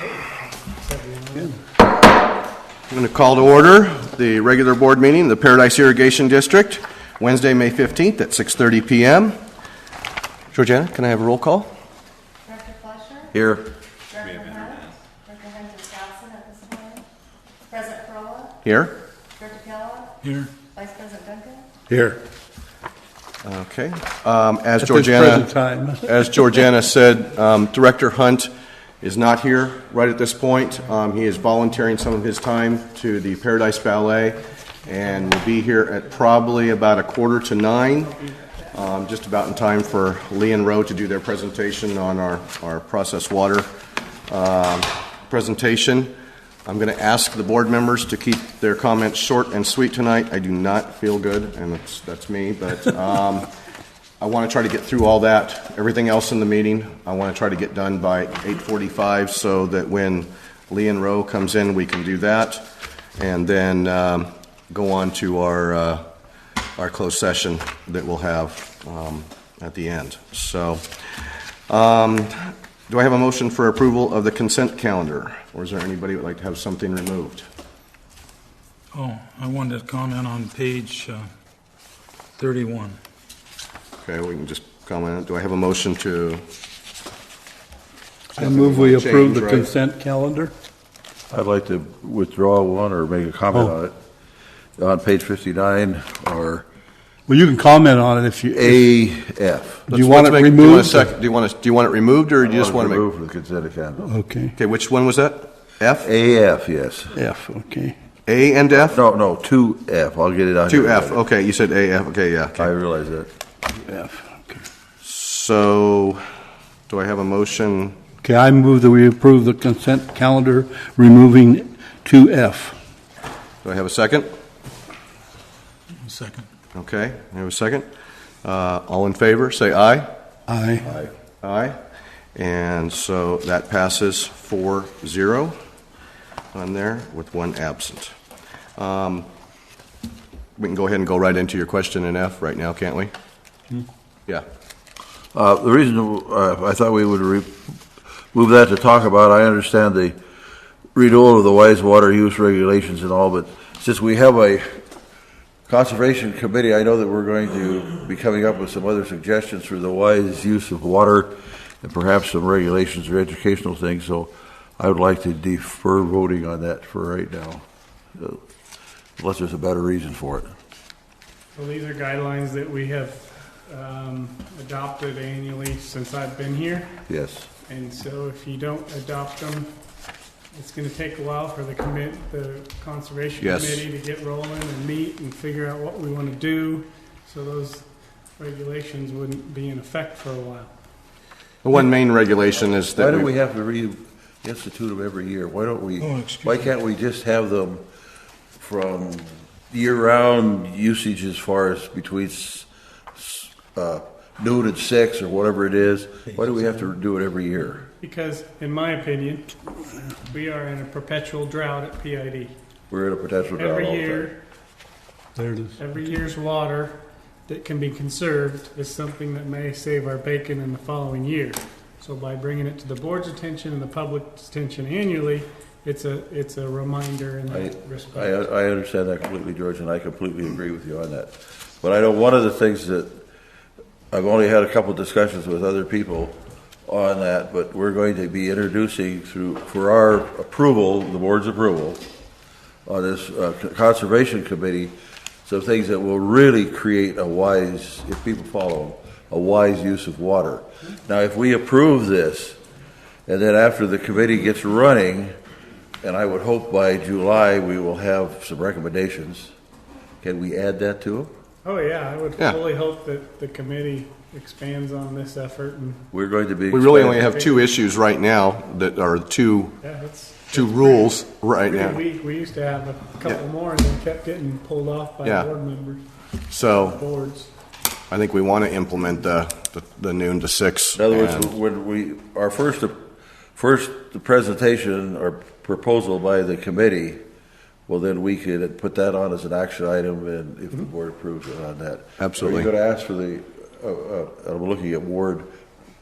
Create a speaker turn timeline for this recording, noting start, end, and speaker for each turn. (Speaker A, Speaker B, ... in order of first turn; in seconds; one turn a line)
Speaker A: 0.3-1.6
Speaker B: 2.9-9.4
Speaker B: 10.5-11.7
Speaker C: 12.4-13.3
Speaker D: 13.3-13.7
Speaker C: 14.1-17.1
Speaker C: 17.7-18.6
Speaker B: 18.6-18.9
Speaker C: 19.4-20.1
Speaker C: 20.7-21.7
Speaker E: 21.9-22.2
Speaker B: 23.4-25.5
Speaker E: 24.8-26.1
Speaker B: 26.0-38.1
Speaker A: 38.2-38.5
Speaker B: 38.7-43.7
Speaker B: 44.3-46.1
Speaker B: 46.6-53.5
Speaker B: 54.2-62.6
Speaker B: 63.2-66.0
Speaker B: 66.8-70.9
Speaker B: 71.7-77.5
Speaker F: 78.9-81.3
Speaker F: 82.4-83.0
Speaker B: 84.0-86.4
Speaker E: 88.3-90.5
Speaker B: 88.4-89.7
Speaker D: 91.3-93.9
Speaker D: 94.8-96.7
Speaker E: 97.3-98.8
Speaker D: 98.5-99.8
Speaker E: 99.9-101.1
Speaker B: 99.9-103.0
Speaker D: 102.4-104.1
Speaker E: 104.0-104.5
Speaker B: 104.6-106.1
Speaker D: 106.0-107.2
Speaker E: 107.1-107.9
Speaker B: 108.2-109.0
Speaker D: 108.8-111.2
Speaker B: 110.7-112.7
Speaker D: 112.6-113.3
Speaker E: 113.8-114.6
Speaker B: 115.0-116.2
Speaker B: 116.9-118.0
Speaker E: 118.2-122.8
Speaker B: 123.6-124.3
Speaker F: 126.0-126.5
Speaker B: 126.7-127.9
Speaker B: 128.4-130.1
Speaker E: 130.5-130.9
Speaker D: 130.8-131.1
Speaker B: 131.4-131.8
Speaker B: 132.3-135.6
Speaker B: 136.5-138.1
Speaker B: 138.8-139.3
Speaker B: 140.6-143.1
Speaker D: 145.3-147.6
Speaker D: 148.3-150.2
Speaker D: 150.9-154.8
Speaker D: 155.7-167.6
Speaker D: 169.2-170.5
Speaker A: 171.5-176.9
Speaker D: 177.1-177.5
Speaker A: 177.7-179.7
Speaker A: 180.5-190.7
Speaker B: 183.4-183.8
Speaker B: 191.6-193.3
Speaker D: 192.9-197.8
Speaker F: 196.0-196.7
Speaker D: 198.6-207.8
Speaker A: 208.0-209.6
Speaker A: 210.2-212.5
Speaker D: 212.9-214.3
Speaker A: 213.6-214.4
Speaker E: 215.3-215.7
Speaker A: 215.8-228.4
Speaker D: 227.5-233.2
Speaker D: 234.1-242.0
Speaker D: 242.8-252.6
Speaker D: 253.3-255.3
Speaker D: 256.0-259.5
Speaker D: 260.2-261.3
Speaker A: 261.6-266.0
Speaker D: 266.1-267.3
Speaker B: 266.7-269.8
Speaker A: 267.3-267.6
Speaker A: 269.8-276.0
Speaker B: 270.5-272.0
Speaker B: 275.2-275.5
Speaker B: 276.5-277.0
Speaker A: 276.9-277.5
Speaker B: 278.1-281.5
Speaker D: 281.0-283.0
Speaker D: 283.6-287.2
Speaker D: 287.9-295.5
Speaker B: 292.2-292.7